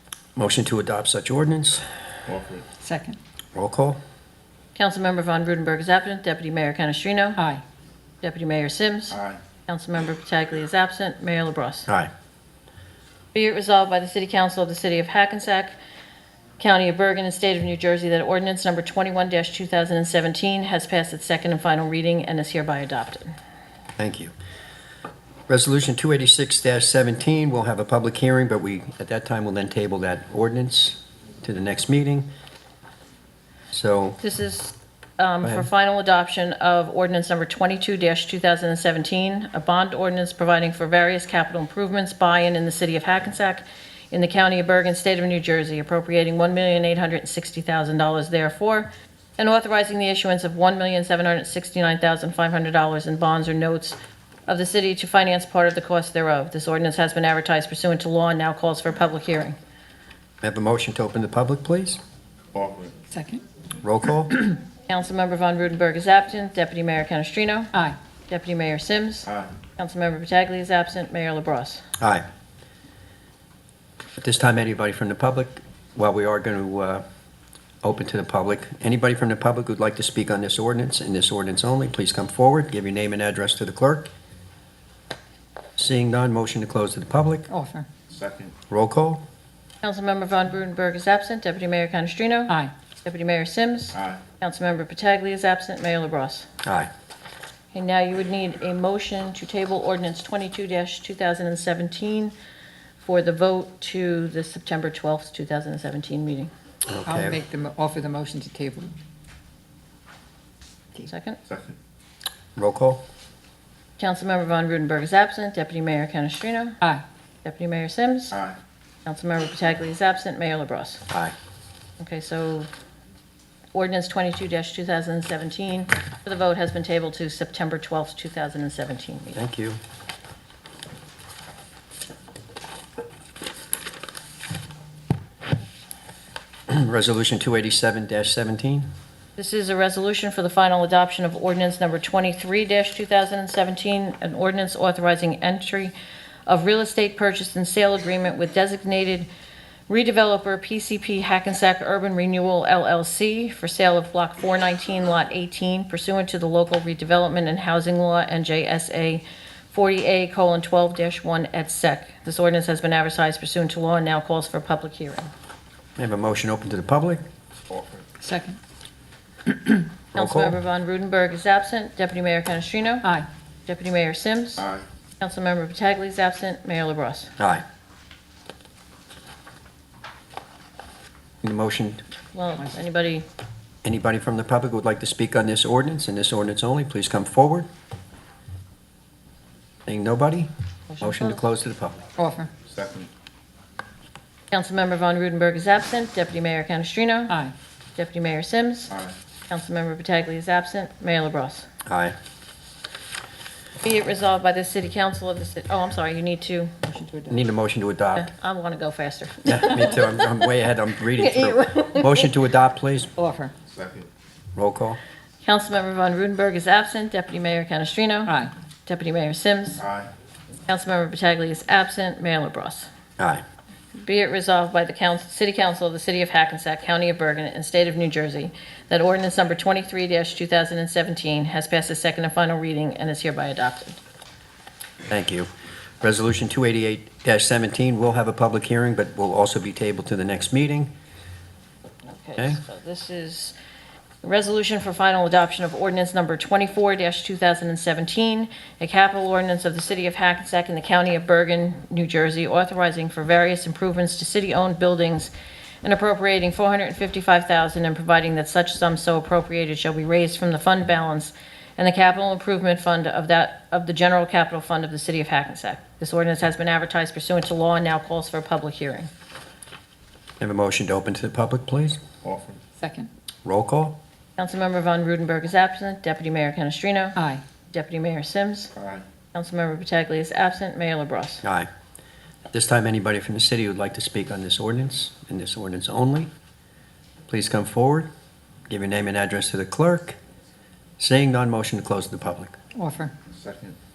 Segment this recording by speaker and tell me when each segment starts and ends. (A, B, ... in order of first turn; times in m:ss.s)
0:00.4-0:01.8 A
0:02.3-0:02.6 B
0:02.8-0:03.2 C
0:03.5-0:04.0 A
0:04.7-0:07.4 D
0:07.4-0:07.6 C
0:08.2-0:11.9 D
0:09.1-0:09.4 B
0:13.3-0:15.8 D
0:16.6-0:23.3 D
0:24.0-0:24.3 A
0:25.5-0:32.3 A
0:33.7-0:34.2 A
0:34.2-0:59.6 D
0:35.4-0:35.7 A
1:00.4-1:02.0 A
1:02.5-1:02.9 B
1:03.1-1:03.4 C
1:03.8-1:04.4 A
1:04.9-1:07.7 D
1:08.3-1:11.8 D
1:14.2-1:17.0 A
1:17.8-1:24.1 A
1:25.8-1:27.5 A
1:27.5-1:27.8 C
1:28.1-1:28.6 B
1:28.7-1:29.2 A
1:29.8-1:36.5 D
1:33.9-1:34.2 B
1:36.6-1:36.9 A
1:37.7-1:42.3 D
1:43.0-1:46.5 D
1:46.9-1:47.4 A
1:47.0-1:48.9 C
1:51.1-1:51.4 D
1:51.5-1:51.8 B
1:52.6-1:53.0 A
1:54.0-1:56.8 D
1:57.4-1:58.4 D
1:59.0-2:01.0 D
2:01.1-2:01.3 A
2:02.0-2:02.7 D
2:03.7-2:09.4 D
2:09.3-2:09.8 A
2:16.7-2:18.9 A
2:19.4-2:25.9 D
2:26.5-2:29.3 D
2:29.9-2:45.3 D
2:46.0-2:47.2 A
2:47.7-2:48.0 B
2:48.2-2:48.6 C
2:50.1-2:50.6 A
2:50.1-2:53.1 D
2:53.7-2:54.7 D
2:55.2-2:57.3 D
2:57.4-2:57.6 A
3:01.4-3:02.0 A
3:02.3-3:03.2 D
3:03.8-3:07.7 A
3:09.9-3:12.0 A
3:10.9-3:11.4 D
3:12.2-3:12.5 C
3:12.6-3:13.1 B
3:14.5-3:17.4 D
3:17.3-3:17.5 C
3:18.0-3:18.9 D
3:19.5-3:21.6 D
3:21.8-3:22.1 A
3:23.8-3:26.8 D
3:26.8-3:27.4 C
3:27.3-3:28.3 A
3:28.1-3:30.5 D
3:29.4-3:33.1 A
3:31.1-3:32.3 D
3:33.2-3:33.5 C
3:33.6-3:34.1 B
3:34.6-3:35.0 A
3:35.4-3:39.8 D
3:38.3-3:38.5 C
3:39.8-3:40.1 B
3:40.7-3:42.9 D
3:43.2-3:43.4 A
3:43.9-3:54.0 D
3:55.1-3:55.5 A
3:56.0-4:00.9 A
4:02.1-4:03.5 D
4:04.2-4:15.3 D
4:15.8-4:29.1 D
4:30.4-4:32.0 A
4:32.2-4:32.6 B
4:32.8-4:33.1 C
4:33.4-4:34.0 A
4:34.4-4:38.7 D
4:37.2-4:37.4 C
4:38.7-4:39.0 B
4:39.3-4:41.4 D
4:41.4-4:41.7 A
4:42.5-4:46.3 A
4:47.3-4:48.1 A
4:48.7-4:50.2 A
4:51.0-4:52.6 A
4:52.7-4:53.1 C
4:53.3-4:53.8 B